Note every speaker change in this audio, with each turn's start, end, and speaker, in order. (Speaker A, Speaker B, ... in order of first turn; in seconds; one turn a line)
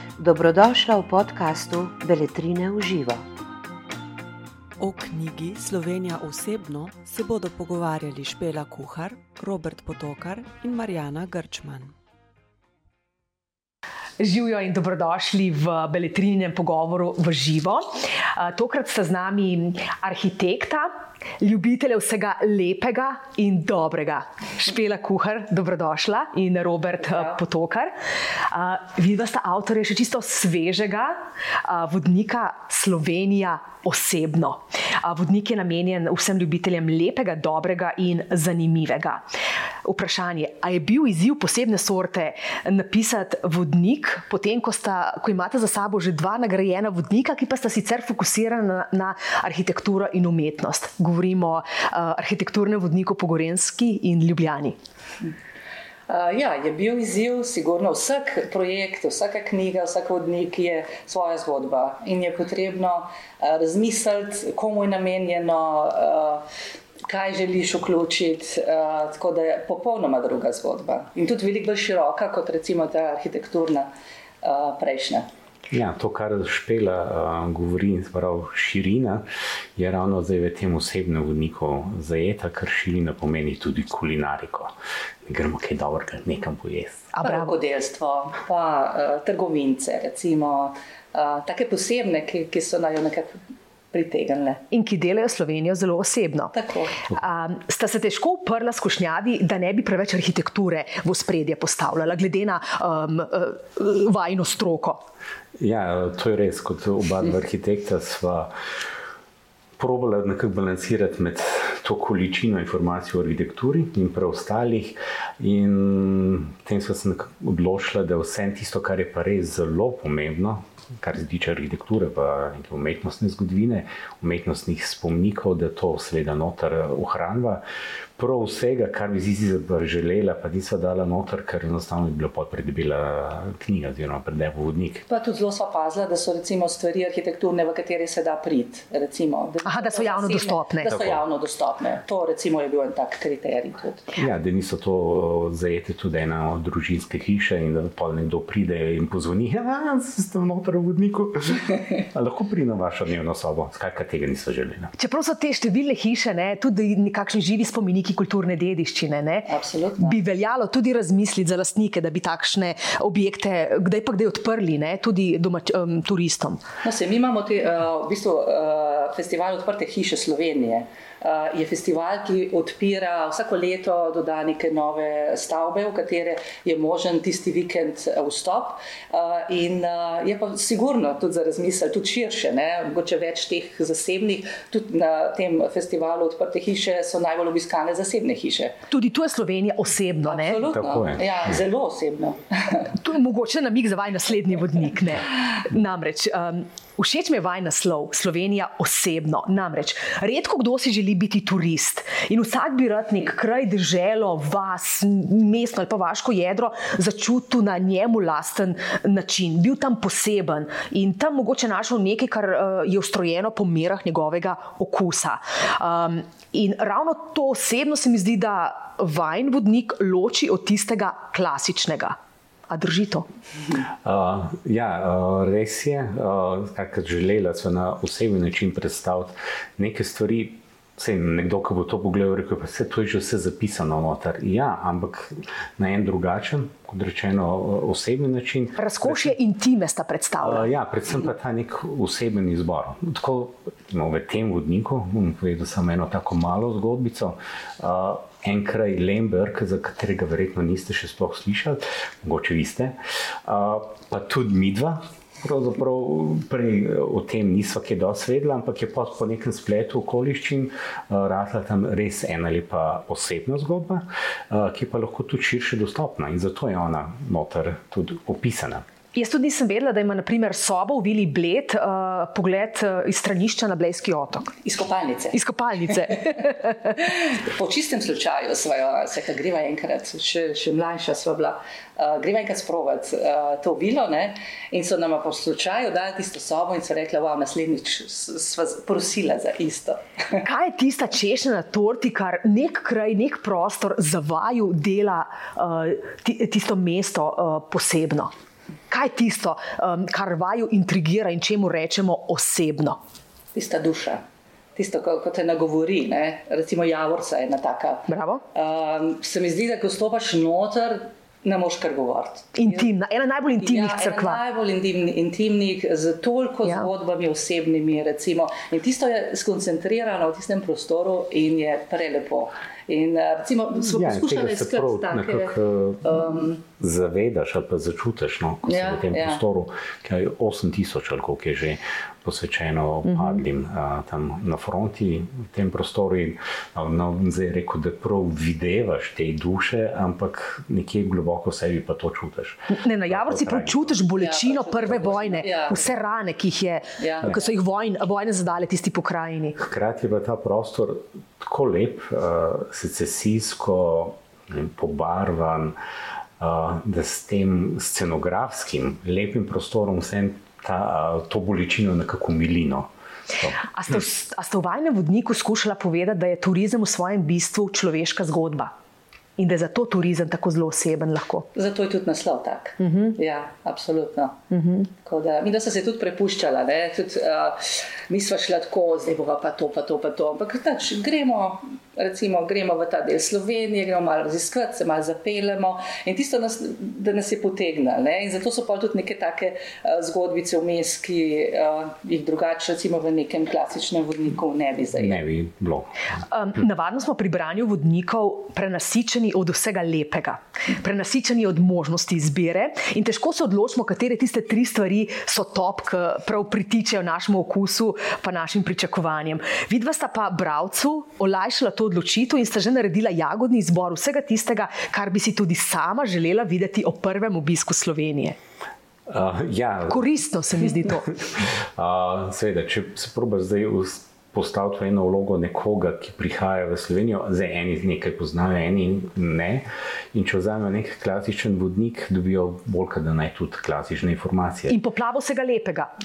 Speaker A: 0.2-3.2
Speaker B: 4.8-11.9
Speaker C: 14.2-39.2
Speaker C: 39.8-54.8
Speaker D: 56.1-66.4
Speaker D: 67.0-73.9
Speaker D: 74.4-75.3
Speaker E: 75.7-84.7
Speaker E: 85.2-87.1
Speaker C: 87.1-87.5
Speaker D: 87.2-93.4
Speaker D: 93.9-94.6
Speaker C: 94.7-96.5
Speaker D: 96.5-97.0
Speaker C: 97.1-105.0
Speaker E: 105.6-108.5
Speaker E: 109.8-127.6
Speaker E: 128.2-135.0
Speaker D: 135.1-144.1
Speaker C: 139.7-140.9
Speaker E: 140.9-141.2
Speaker E: 144.2-154.9
Speaker C: 154.9-166.6
Speaker D: 159.4-160.2
Speaker D: 166.8-188.8
Speaker C: 188.9-190.6
Speaker D: 190.2-192.9
Speaker E: 190.7-191.5
Speaker C: 192.9-222.2
Speaker C: 222.7-223.3
Speaker E: 224.0-239.3
Speaker C: 238.8-240.7
Speaker E: 240.4-268.8
Speaker C: 269.1-274.5
Speaker D: 274.6-290.4
Speaker C: 275.3-276.9
Speaker C: 290.4-298.3
Speaker C: 298.9-303.0
Speaker D: 303.5-304.2
Speaker D: 304.8-312.9
Speaker C: 308.1-308.4
Speaker C: 312.6-314.4
Speaker D: 313.6-326.6
Speaker E: 323.8-344.0
Speaker D: 328.7-329.4
Speaker C: 333.1-333.4
Speaker C: 342.7-349.6
Speaker D: 344.2-345.9
Speaker D: 347.0-347.5
Speaker E: 349.6-355.8
Speaker E: 356.4-363.6
Speaker C: 363.7-368.7
Speaker C: 369.4-371.5
Speaker D: 371.5-374.4
Speaker C: 372.8-373.2
Speaker C: 374.5-374.9
Speaker D: 375.0-395.2
Speaker E: 394.9-396.1
Speaker C: 396.3-418.4
Speaker E: 419.1-420.1
Speaker C: 419.9-421.1
Speaker E: 420.7-434.8
Speaker C: 434.7-435.9